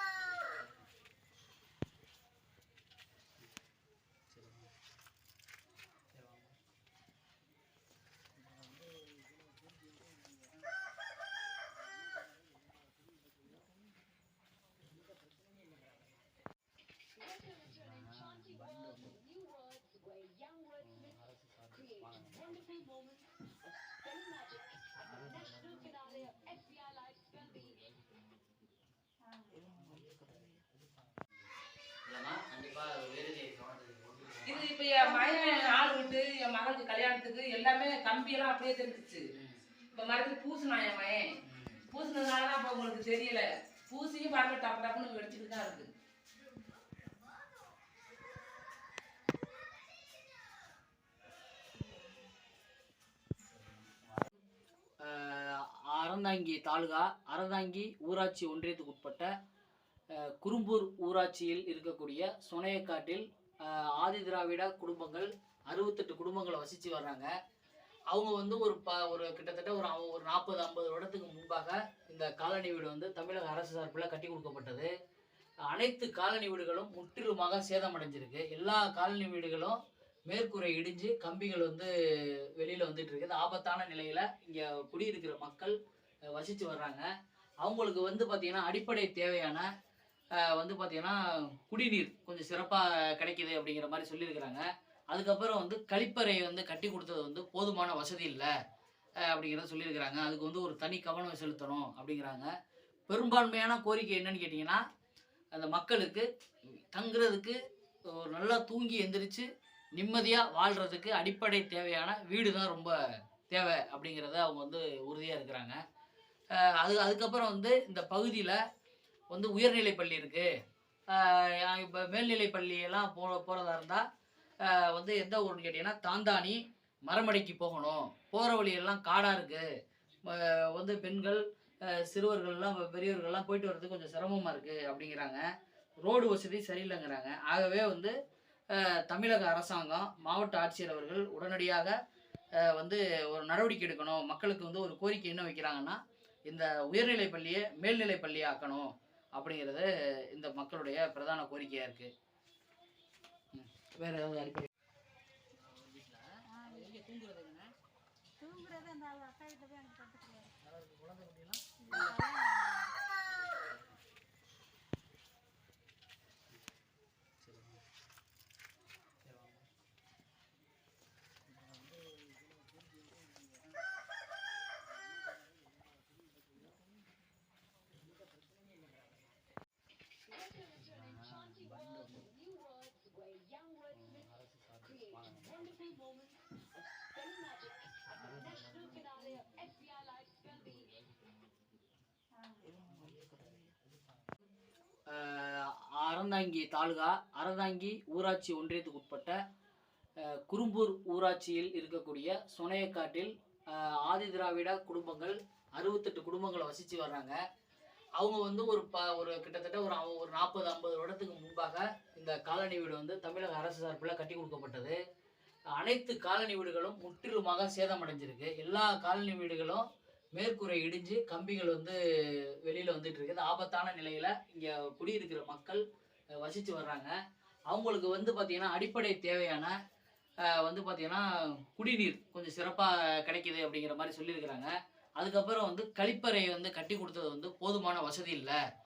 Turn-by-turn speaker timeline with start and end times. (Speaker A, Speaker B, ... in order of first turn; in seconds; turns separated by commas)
Speaker A: 0.2-0.9, Speaker A: 4.3-4.7, Speaker A: 6.2-6.5, Speaker A: 17.7-18.7, Speaker A: 20.8-22.6, Speaker A: 25.2-25.7, Speaker B: 29.3-29.6, Speaker A: 29.8-30.4, Speaker A: 32.1-34.7, Speaker C: 34.5-39.3, Speaker C: 39.9-41.4, Speaker A: 41.4-41.8, Speaker C: 41.9-45.9, Speaker A: 53.5-54.3, Speaker A: 55.0-59.3, Speaker A: 60.2-67.3, Speaker A: 68.1-74.9, Speaker A: 75.7-81.9, Speaker A: 82.5-85.8, Speaker A: 86.3-87.1, Speaker A: 87.6-89.7, Speaker A: 90.4-98.5, Speaker A: 99.2-102.5, Speaker A: 103.1-104.8, Speaker A: 105.5-107.6, Speaker A: 108.1-113.0, Speaker A: 113.5-115.8, Speaker A: 116.6-118.6, Speaker A: 119.3-120.5, Speaker A: 121.1-124.0, Speaker A: 124.6-129.7, Speaker A: 130.3-135.4, Speaker A: 136.1-138.1, Speaker A: 138.7-141.9, Speaker A: 142.6-152.1, Speaker A: 153.5-154.7, Speaker C: 155.6-157.7, Speaker B: 156.5-157.0, Speaker B: 158.4-160.5, Speaker A: 160.6-161.6, Speaker B: 161.8-163.0, Speaker A: 163.3-163.9, Speaker A: 167.4-167.8, Speaker A: 169.2-169.7, Speaker A: 180.7-182.3, Speaker A: 183.9-185.8, Speaker A: 188.2-189.0, Speaker A: 195.1-199.4, Speaker A: 200.2-207.4, Speaker A: 208.2-215.0, Speaker A: 215.8-219.8, Speaker A: 220.4-222.0, Speaker A: 222.6-225.8, Speaker A: 226.4-227.1, Speaker A: 227.7-229.8, Speaker A: 230.4-238.6